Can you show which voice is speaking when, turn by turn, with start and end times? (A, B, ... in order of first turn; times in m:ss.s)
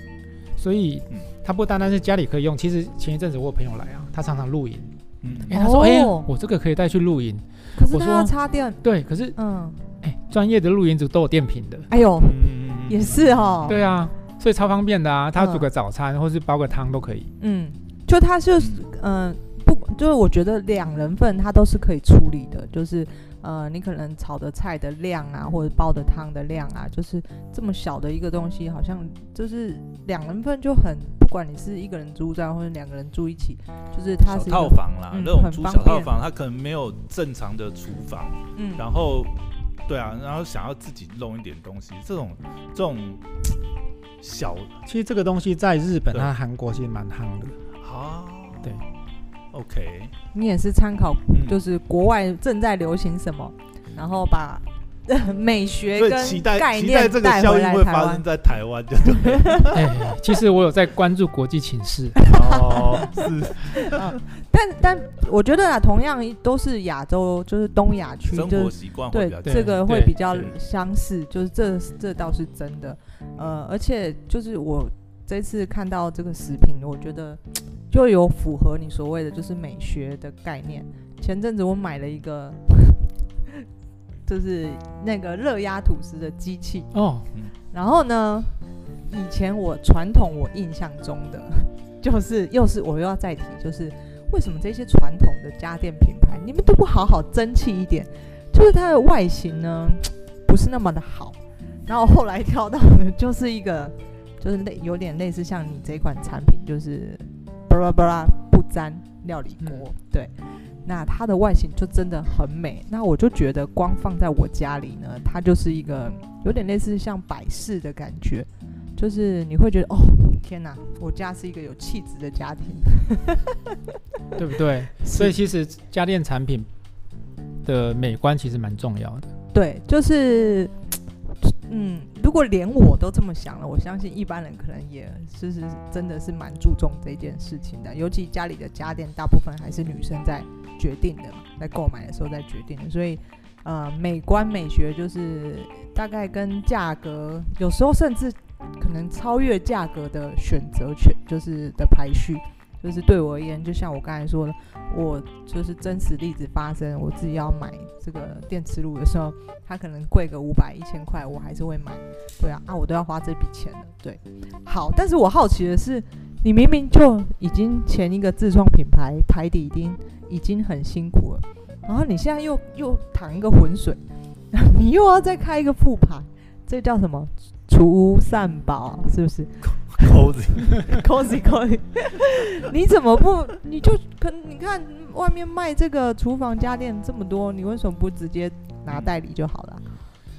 0:00.6-0:09.4 A
0:05.2-0:05.5 B
0:05.5-0:06.3 C
0:07.7-0:08.8 C
0:09.4-0:09.8 C
0:10.0-0:11.9 A
0:11.9-0:13.8 C
0:12.2-0:13.8 B
0:13.7-0:17.3 A
0:15.4-0:15.7 C
0:17.4-0:36.1 C
0:18.6-0:18.8 B
0:34.2-0:39.3 B
0:38.5-0:38.8 C
0:39.9-0:43.2 B
0:44.2-0:44.8 B
0:44.8-0:47.6 A
0:47.8-0:48.9 B
0:49.5-0:50.1 B
0:50.3-0:58.2 C
0:51.3-0:51.6 B
0:56.0-0:59.8 B
0:59.2-0:59.7 C
0:59.7-1:02.2 A
1:02.2-1:23.6 C
1:02.3-1:04.1 B
1:08.3-1:09.8 B
1:09.4-1:10.1 A
1:24.2-1:26.9 C
1:26.9-1:27.3 A
1:27.7-1:50.3 C
1:50.8-2:03.7 C
2:04.4-2:06.7 A
2:05.0-2:05.4 C
2:07.6-2:09.3 A
2:09.5-2:10.7 C
2:11.3-2:54.0 C
2:54.5-3:09.8 C
2:59.9-3:01.0 B